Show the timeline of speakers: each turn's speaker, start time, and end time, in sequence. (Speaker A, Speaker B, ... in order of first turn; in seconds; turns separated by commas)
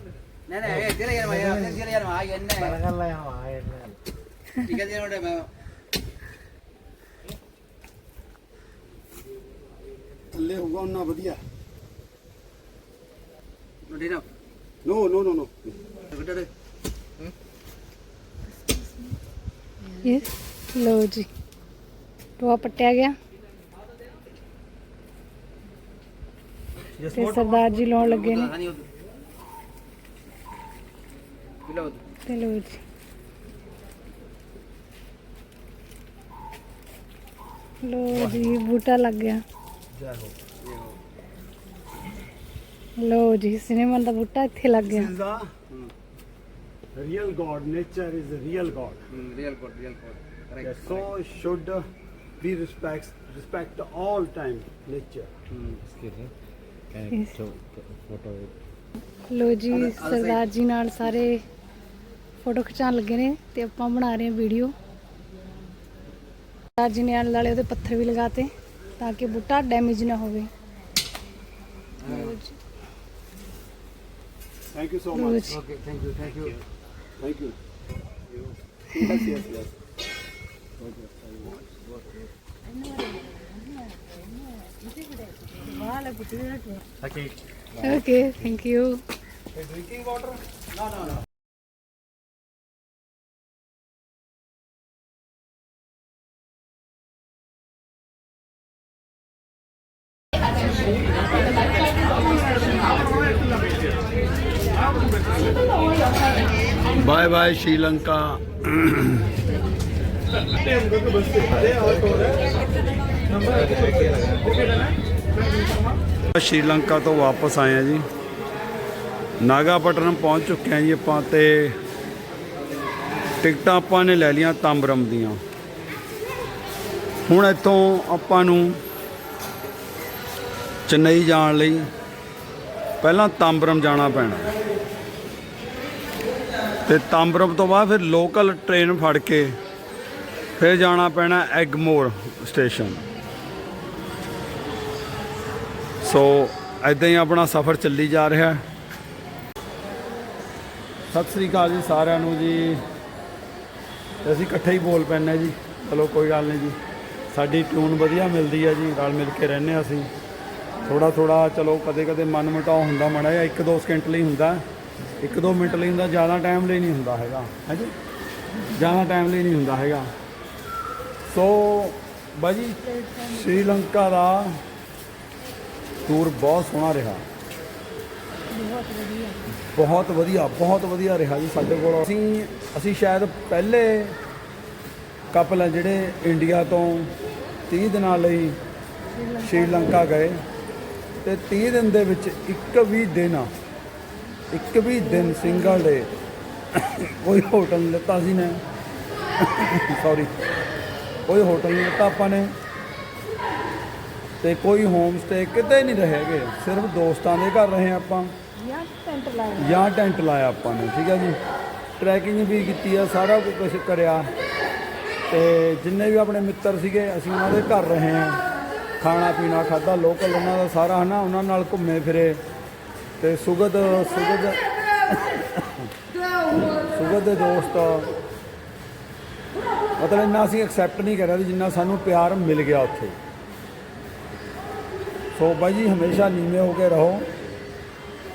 Speaker A: 0.5-2.8, Speaker B: 1.3-1.8, Speaker B: 2.6-4.0, Speaker A: 4.6-5.5, Speaker C: 10.3-11.4, Speaker A: 13.9-14.2, Speaker C: 14.8-15.8, Speaker A: 16.1-16.5, Speaker D: 20.0-21.3, Speaker D: 22.4-23.1, Speaker C: 27.0-27.7, Speaker D: 27.1-28.5, Speaker A: 28.0-28.9, Speaker A: 31.6-32.0, Speaker D: 32.2-32.8, Speaker D: 37.8-39.4, Speaker C: 38.1-38.6, Speaker C: 39.9-40.4, Speaker A: 40.6-41.0, Speaker D: 43.0-45.1, Speaker C: 44.8-45.5, Speaker C: 46.9-49.0, Speaker A: 49.1-51.1, Speaker C: 50.6-51.8, Speaker C: 52.4-55.3, Speaker A: 55.5-55.8, Speaker B: 55.8-56.3, Speaker B: 56.9-58.5, Speaker D: 59.3-61.4, Speaker A: 59.7-60.4, Speaker D: 62.4-64.7, Speaker D: 66.8-70.5, Speaker A: 72.0-72.3, Speaker D: 72.0-72.6, Speaker C: 74.7-75.4, Speaker D: 75.1-75.6, Speaker A: 75.5-76.6, Speaker C: 77.2-77.6, Speaker C: 78.9-79.7, Speaker C: 80.8-81.6, Speaker D: 82.8-83.9, Speaker D: 85.5-86.8, Speaker B: 87.0-88.0, Speaker D: 87.8-89.0, Speaker C: 89.5-91.0, Speaker C: 106.9-109.3, Speaker C: 111.3-112.4, Speaker B: 113.5-114.3, Speaker C: 116.3-118.0, Speaker C: 119.4-121.8, Speaker C: 123.4-125.4, Speaker C: 127.3-128.8, Speaker C: 130.9-131.9, Speaker C: 133.0-134.5, Speaker C: 136.8-139.6, Speaker C: 140.6-143.0, Speaker C: 146.0-148.6, Speaker C: 151.1-152.8, Speaker C: 154.2-156.8, Speaker C: 157.3-160.1, Speaker C: 160.8-164.6, Speaker C: 165.2-167.9, Speaker C: 168.7-170.1, Speaker C: 171.3-172.8, Speaker D: 172.8-173.5, Speaker C: 173.3-174.6, Speaker C: 176.1-177.2, Speaker D: 178.5-179.4, Speaker C: 179.7-184.2, Speaker C: 185.3-187.1, Speaker C: 187.7-188.6, Speaker D: 189.1-190.0, Speaker C: 189.4-190.4, Speaker C: 191.2-193.5, Speaker C: 194.5-196.1, Speaker D: 195.1-195.8, Speaker C: 196.7-198.6, Speaker C: 199.4-200.3, Speaker C: 201.3-202.5, Speaker C: 204.4-208.3, Speaker D: 208.6-209.8, Speaker C: 209.6-211.4, Speaker C: 212.0-214.3, Speaker C: 215.3-218.4, Speaker C: 219.0-222.4, Speaker C: 223.2-225.9, Speaker C: 226.9-228.1, Speaker C: 230.0-233.2, Speaker C: 235.3-237.3